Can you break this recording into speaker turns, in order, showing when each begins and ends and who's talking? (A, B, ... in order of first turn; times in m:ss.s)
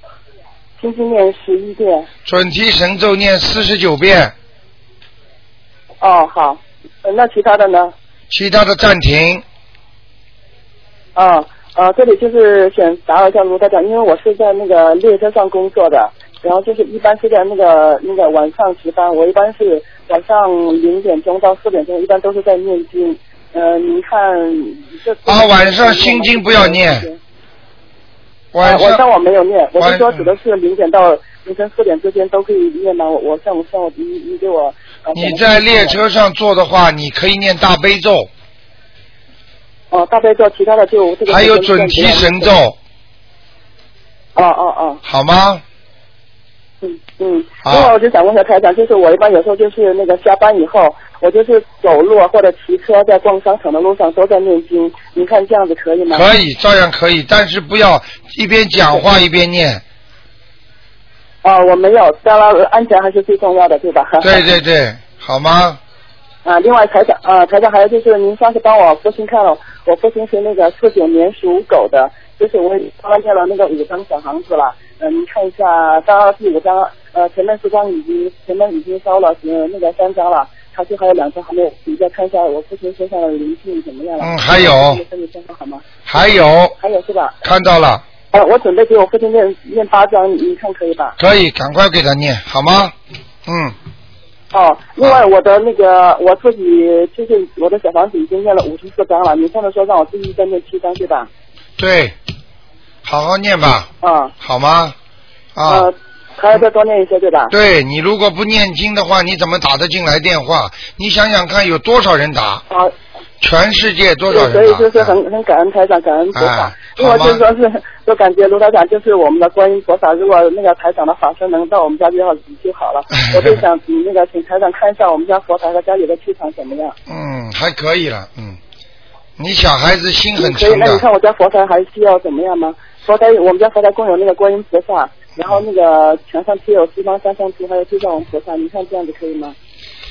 0:00.8-0:02.1 A
0:02.2-0:04.3 B
0:06.0-0:07.9 A
0:08.3-0:09.4 B
0:11.2-0:27.2 A
0:25.3-0:27.0 B
0:28.5-0:29.0 B
0:28.6-0:36.0 A
0:29.8-0:30.3 B
0:35.2-0:38.3 B
0:39.9-0:42.5 A
0:41.3-0:42.8 B
0:44.4-0:45.0 A
0:45.0-0:45.6 B
0:46.8-0:56.3 A
0:47.6-0:47.9 B
0:56.1-0:59.8 B
1:01.4-1:04.5 A
1:04.2-1:05.8 B
1:06.4-1:25.8 A
1:24.2-1:25.0 B
1:26.1-1:26.8 B
1:26.8-1:27.4 A
1:27.4-1:28.0 B
1:28.3-1:31.2 A
1:31.2-1:33.0 B
1:33.5-1:33.8 B
1:34.5-1:41.3 A
1:41.8-1:42.2 B
1:43.0-1:45.0 B
1:44.0-1:44.3 A
1:45.6-1:45.9 B
1:45.7-1:47.5 A
1:47.5-1:52.6 B
1:53.4-1:55.2 B
1:54.3-2:07.0 A
1:56.3-1:57.4 B
2:03.1-2:03.6 B
2:07.1-2:08.6 B
2:09.4-2:11.0 B
2:10.4-2:19.6 A